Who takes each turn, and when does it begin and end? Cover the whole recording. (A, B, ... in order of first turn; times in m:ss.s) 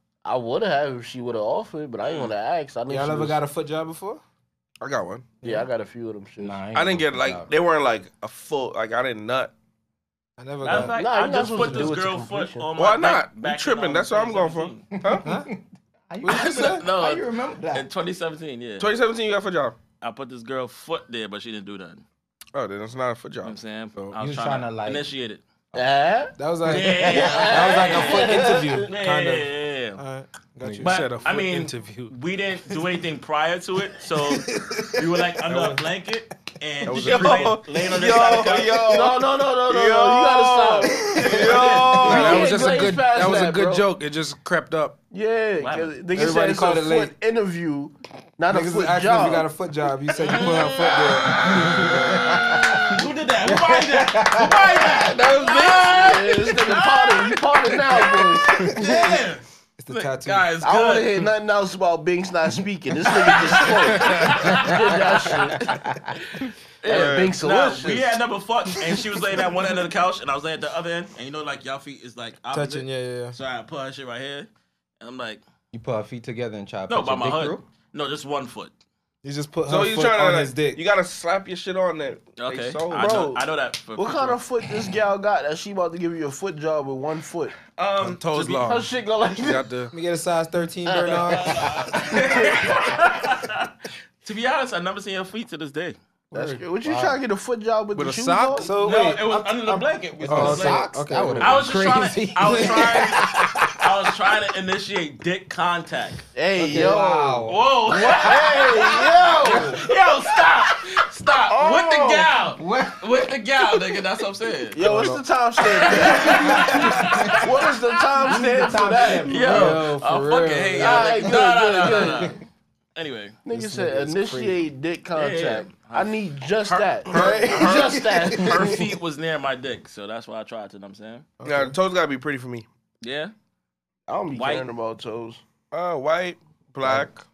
0:00.2-0:03.4 A
0:02.0-0:02.3 B
0:02.9-0:04.2 C
0:04.8-0:05.3 D
0:05.4-0:06.6 A
0:06.4-0:07.5 E
0:06.7-0:09.5 D
0:10.4-0:11.0 C
0:10.6-0:14.8 B
0:10.7-0:12.7 A
0:12.8-0:15.2 D
0:14.9-0:17.9 E
0:15.2-0:15.5 C
0:16.2-0:16.8 C
0:16.3-0:18.9 B
0:18.8-0:19.8 D
0:20.0-0:22.0 B
0:22.5-0:23.6 D
0:23.4-0:25.4 B
0:24.1-0:25.0 E
0:25.7-0:28.9 A
0:26.4-0:31.1 C
0:26.6-0:30.0 B
0:27.1-0:27.9 E
0:30.6-0:32.1 F
0:30.8-0:39.1 B
0:34.5-0:35.8 C
0:36.8-0:42.7 D
0:36.9-0:37.2 C
0:37.0-0:37.6 F
0:38.8-0:43.9 A
0:41.3-0:42.0 B
0:42.0-0:45.0 F
0:45.1-0:49.5 A
0:45.6-0:45.9 B
0:46.1-0:47.1 C
0:48.5-0:54.8 C
0:50.2-0:51.5 B
0:51.6-0:51.9 E
0:52.7-0:57.2 B
0:55.5-0:59.2 A
0:57.9-1:01.3 B
0:59.8-1:00.5 C
1:00.6-1:06.0 A
1:03.1-1:05.4 B
1:06.8-1:14.5 B
1:06.8-1:08.2 A
1:06.9-1:07.3 D
1:12.5-1:13.4 C
1:15.0-1:15.4 B
1:15.7-1:17.6 E
1:16.9-1:18.7 B
1:19.2-1:20.8 C
1:19.7-1:23.4 D
1:22.4-1:24.4 B
1:22.9-1:23.4 A
1:24.0-1:27.6 A
1:27.7-1:28.7 B
1:28.0-1:28.9 F
1:28.6-1:29.7 A
1:29.4-1:29.9 D
1:29.9-1:32.4 C
1:30.9-1:31.6 A
1:31.1-1:33.7 B
1:31.6-1:32.0 E
1:32.1-1:33.0 A
1:34.2-1:36.0 B
1:36.3-1:37.2 C
1:36.3-1:38.7 A
1:37.9-1:38.7 F
1:38.6-1:43.8 C
1:38.8-1:46.2 B
1:40.3-1:40.8 F
1:40.4-1:43.3 E
1:46.3-1:47.5 A
1:46.6-1:47.6 C
1:46.6-1:47.3 E
1:47.5-1:54.8 B
1:47.8-1:48.9 E
1:48.2-1:49.8 A
1:49.4-1:49.8 C
1:51.5-1:52.3 A
1:52.6-1:53.2 E
1:54.7-1:59.8 A
1:54.8-1:55.2 C
1:55.6-2:02.4 B
1:56.1-1:57.4 C
1:58.3-2:01.3 C
1:58.4-2:00.8 E
2:00.8-2:02.4 A
2:03.0-2:03.4 B
2:03.4-2:08.9 A
2:03.5-2:04.6 C
2:05.1-2:11.3 B
2:07.1-2:08.8 C
2:11.4-2:11.7 C
2:11.4-2:12.7 D
2:13.0-2:13.3 B
2:14.1-2:15.4 A
2:14.3-2:14.7 B
2:15.7-2:17.2 D